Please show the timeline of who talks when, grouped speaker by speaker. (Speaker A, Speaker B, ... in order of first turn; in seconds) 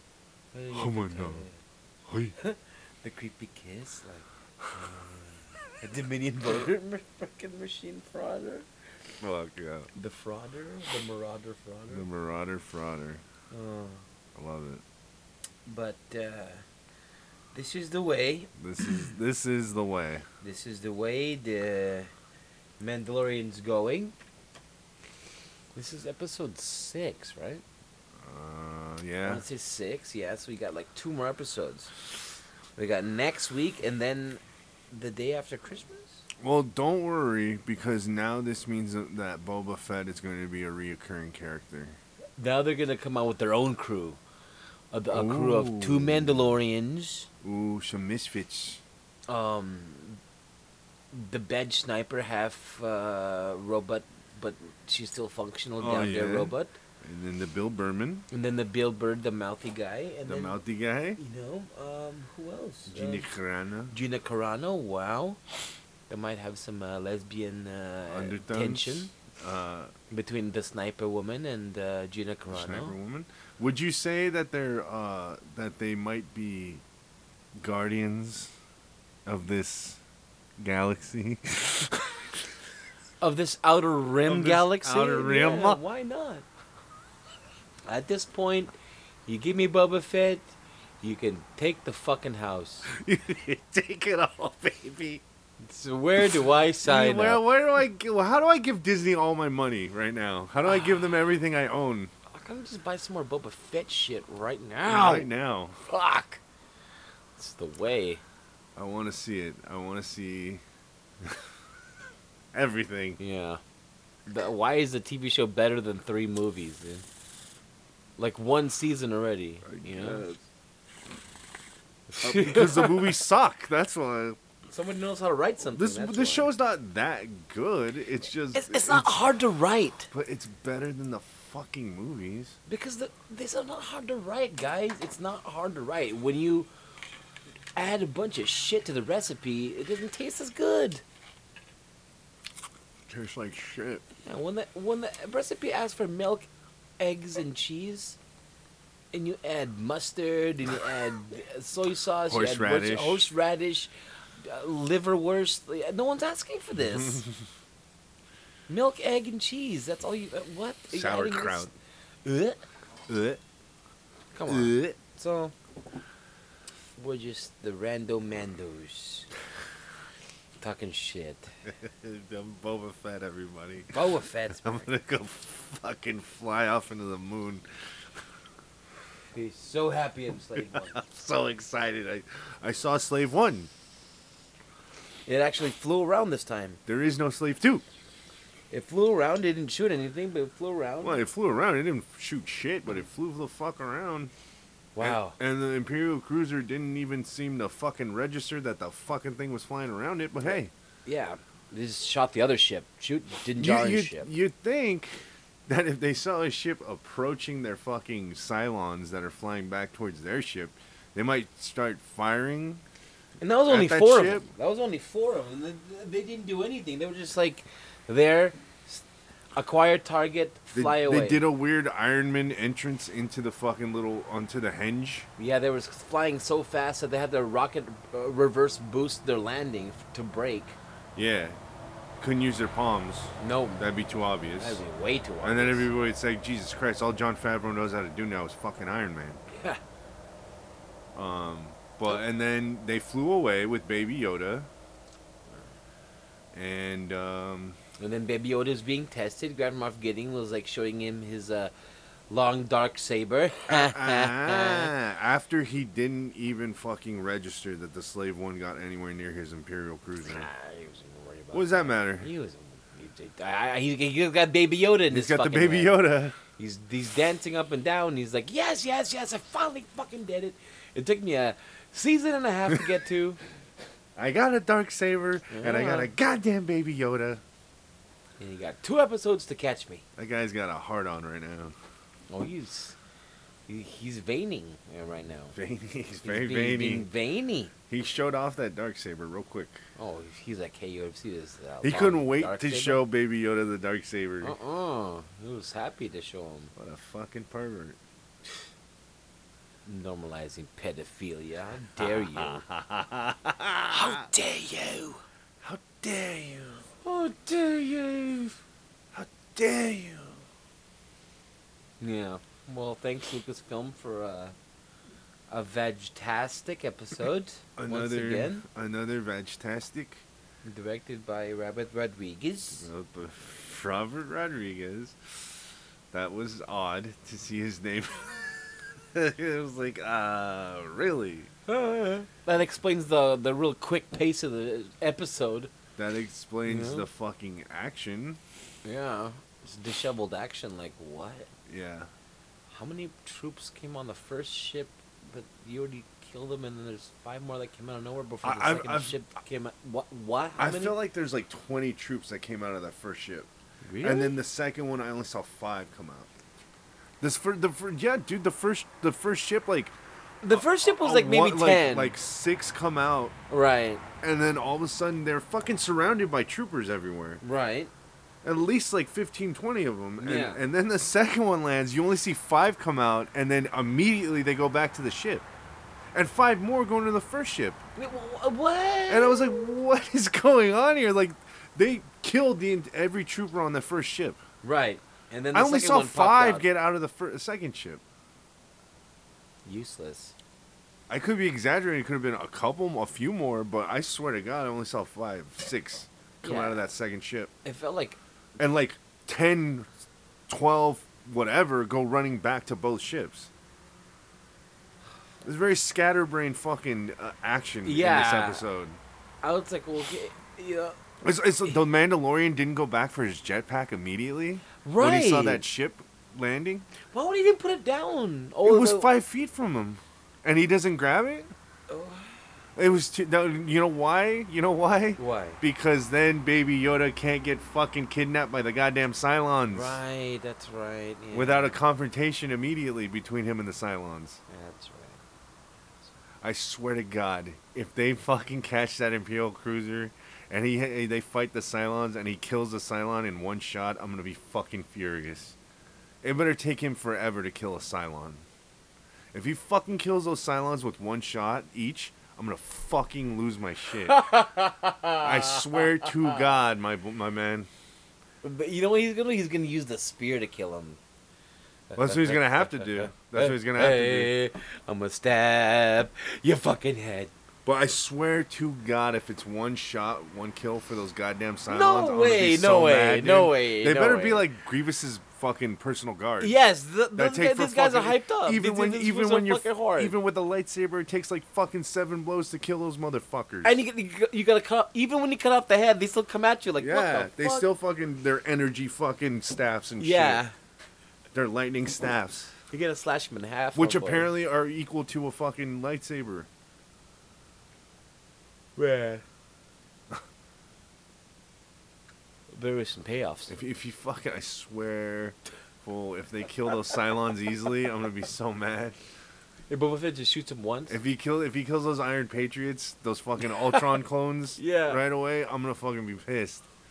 Speaker A: 0.5-1.6, 2.4-8.7, 9.9-12.0, 13.5-14.0, 15.7-16.6, 17.5-18.5, 20.4-22.1, 22.8-24.1, 25.7-27.6, 29.2-31.9, 32.8-36.2, 42.4-44.2, 44.9-47.3, 49.3-50.2, 51.1-56.7, 58.3-60.6, 61.2-63.3, 63.9-65.4, 66.1-69.1, 70.1-72.9, 83.2-86.4, 87.8-88.7, 89.2-92.9, 95.6-97.4, 100.6-101.0, 102.3-105.3, 105.8-106.4, 107.4-108.2, 113.2-113.6, 114.3-117.0, 118.2-120.2, 122.1-123.1, 124.7-126.5, 128.5-130.1, 132.7-136.7, 137.8-141.0, 144.2-146.5, 147.0-148.2, 149.1-153.9, 154.4-157.2, 158.7-161.7, 162.2-162.6, 164.3-165.5, 167.0-169.3, 170.6-171.5, 173.9-174.9, 179.3-181.0, 185.3-186.8, 188.7-191.2, 194.9-195.4, 201.1-204.3, 213.4-219.0, 219.5-221.4, 225.4-230.8, 233.4-233.8, 234.6-235.9, 239.5-239.8, 248.0-251.7, 252.3-254.9, 260.3-273.4, 275.5-276.1, 278.4-280.0, 282.3-282.9, 283.7-285.5, 286.2-287.7, 290.0-293.0, 294.4-296.7, 299.9-302.6, 303.9-305.2, 307.0-308.6, 312.0-314.5, 315.5-318.6, 320.6-322.9, 331.7-335.7, 336.6-337.1, 338.8-341.5, 342.7-351.0, 353.8-354.4, 360.4-362.1, 363.5-364.0, 367.4-367.9, 370.2-370.6, 378.0-379.7, 384.6-386.7, 389.6-390.3, 396.4-396.9, 397.6-398.2, 407.8-408.7, 409.4-411.0, 414.8-415.6, 417.1-419.1, 421.9-422.4, 425.2-425.6, 429.7-431.8, 434.5-435.2, 454.1-456.4, 458.4-461.0, 461.9-467.3, 471.7-474.5, 476.4-480.1, 483.6-487.7, 490.0-490.5, 492.7-494.3, 498.8-499.2, 502.5-503.6, 509.7-511.0, 514.5-515.0
Speaker B: 0.7-1.4, 2.1-2.3, 9.2-9.9, 11.9-13.2, 14.3-14.8, 18.6-20.2, 28.2-29.4, 36.4-42.0, 45.1-46.5, 47.4-48.8, 55.8-58.2, 60.2-61.2, 62.9-63.9, 68.1-69.9, 72.5-76.8, 77.5-78.5, 79.2-80.0, 80.6-82.4, 84.2-85.8, 92.9-95.2, 96.2-102.1, 104.8-105.8, 108.8-110.6, 112.5-113.2, 119.6-120.4, 122.2-124.4, 125.7-129.1, 130.1-132.6, 143.1-144.0, 152.3-153.3, 156.8-157.3, 160.9-161.7, 163.1-163.4, 164.5-164.9, 171.8-173.9, 174.6-177.6, 180.6-183.7, 186.8-187.8, 191.0-194.3, 195.0-200.7, 203.6-212.8, 213.7-214.5, 220.7-225.3, 231.2-231.6, 232.2-234.8, 235.4-239.4, 241.1-244.7, 246.5-247.8, 253.7-260.5, 261.5-262.3, 265.1-266.4, 274.1-277.4, 280.1-281.7, 285.5-287.1, 287.9-289.8, 291.8-294.6, 296.7-298.0, 302.0-304.3, 305.6-306.8, 309.1-310.4, 317.8-320.2, 322.7-325.4, 326.1-331.5, 335.9-338.4, 341.7-342.1, 348.4-349.2, 350.6-353.5, 354.0-356.3, 357.2-359.9, 360.5-363.4, 364.2-367.4, 368.4-375.4, 376.1-377.8, 379.1-384.4, 385.5-388.0, 391.1-397.5, 398.6-399.9, 400.5-403.5, 405.4-409.0, 411.2-416.9, 418.6-421.5, 422.8-430.0, 431.3-434.4, 436.4-445.6, 446.2-448.4, 449.3-454.2, 455.2-457.7, 461.9-464.3, 467.6-476.6, 477.1-483.8, 486.8-490.4, 491.3-492.5, 493.7-496.5, 503.5-509.0, 510.9-516.6